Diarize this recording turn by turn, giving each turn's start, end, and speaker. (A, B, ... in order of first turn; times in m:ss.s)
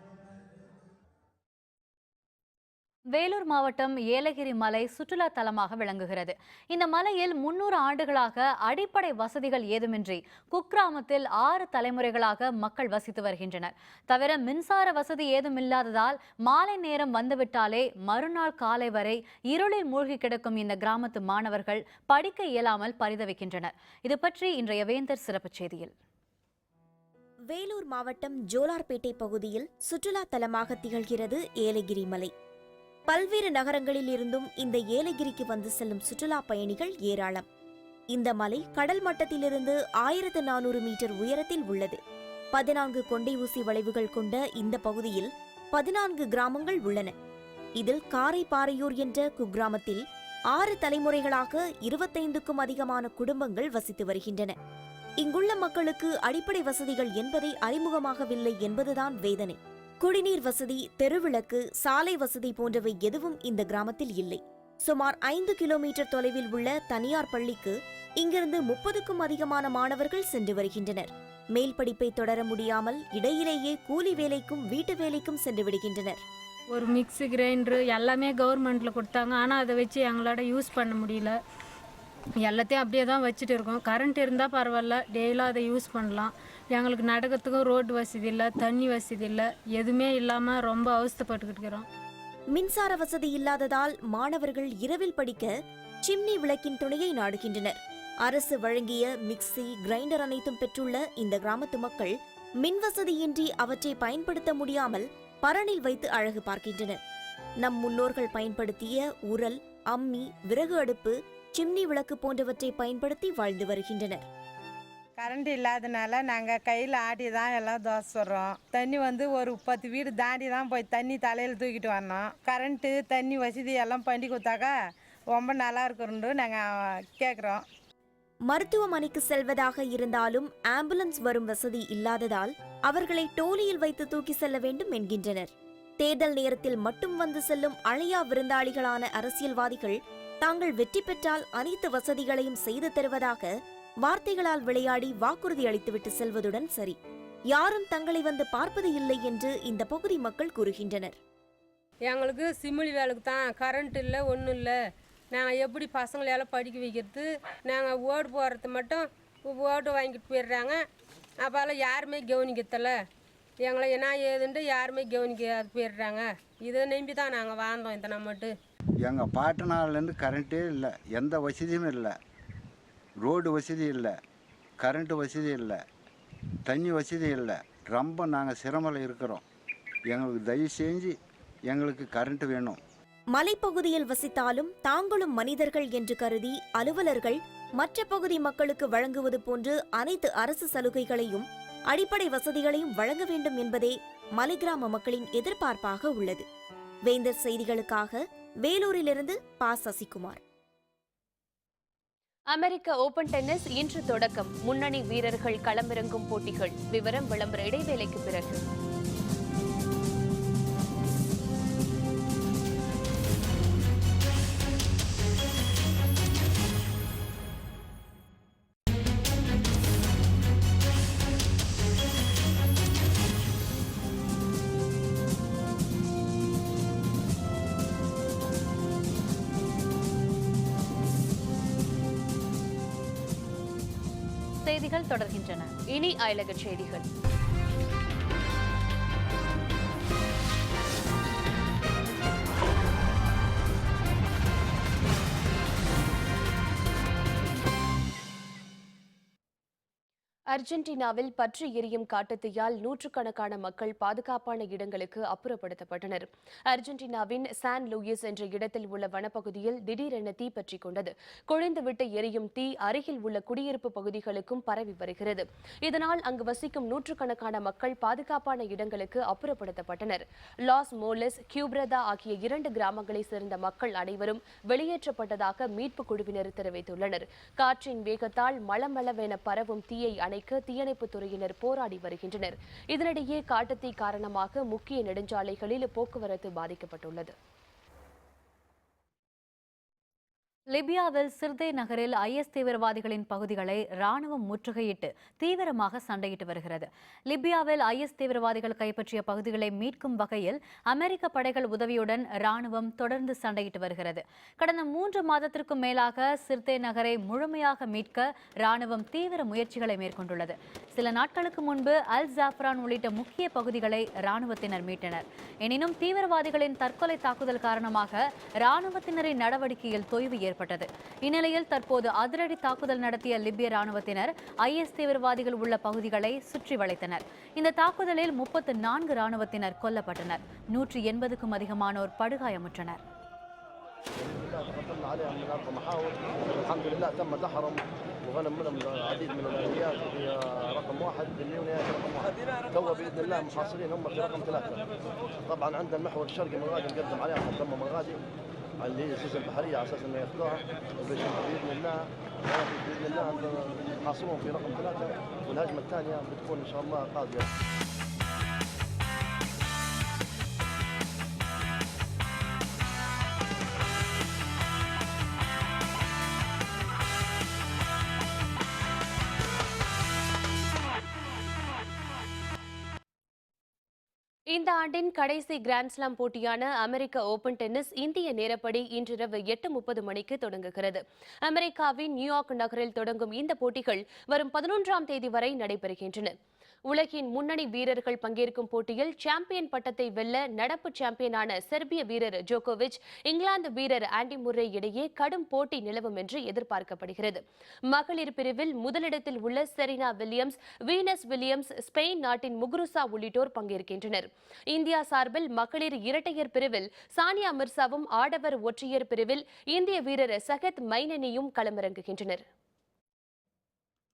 0:03.1-0:25.9 A
0:27.5-0:32.3 B
0:33.1-0:37.5 B
0:38.1-0:42.0 B
0:42.5-0:47.1 B
0:47.8-0:54.6 B
0:55.2-1:16.2 B
1:16.7-1:21.4 C
1:22.4-1:31.9 C
1:32.5-1:35.5 B
1:36.0-1:47.0 B
1:47.6-1:54.3 B
1:55.2-2:04.7 D
2:05.3-2:07.6 D
2:08.5-2:23.5 B
2:24.0-2:27.0 B
2:27.5-2:31.2 B
2:32.2-2:34.7 C
2:35.3-2:39.0 C
2:39.6-2:40.7 C
2:41.5-2:42.9 C
2:43.7-2:46.1 C
2:46.7-2:48.4 C
2:49.0-2:52.1 E
2:53.2-2:54.1 E
2:54.8-2:55.8 E
2:56.6-2:59.4 E
3:00.1-3:01.2 E
3:01.7-3:02.8 E
3:03.3-3:16.4 B
3:17.1-3:20.4 B
3:22.5-3:28.6 F
3:54.6-3:55.7 A
3:55.9-3:57.1 F
4:10.5-4:47.3 F
4:50.7-5:33.0 A
5:34.2-5:44.8 G
5:45.5-5:48.2 G
5:48.8-5:57.5 G
6:14.5-6:26.3 F
6:26.9-6:52.4 F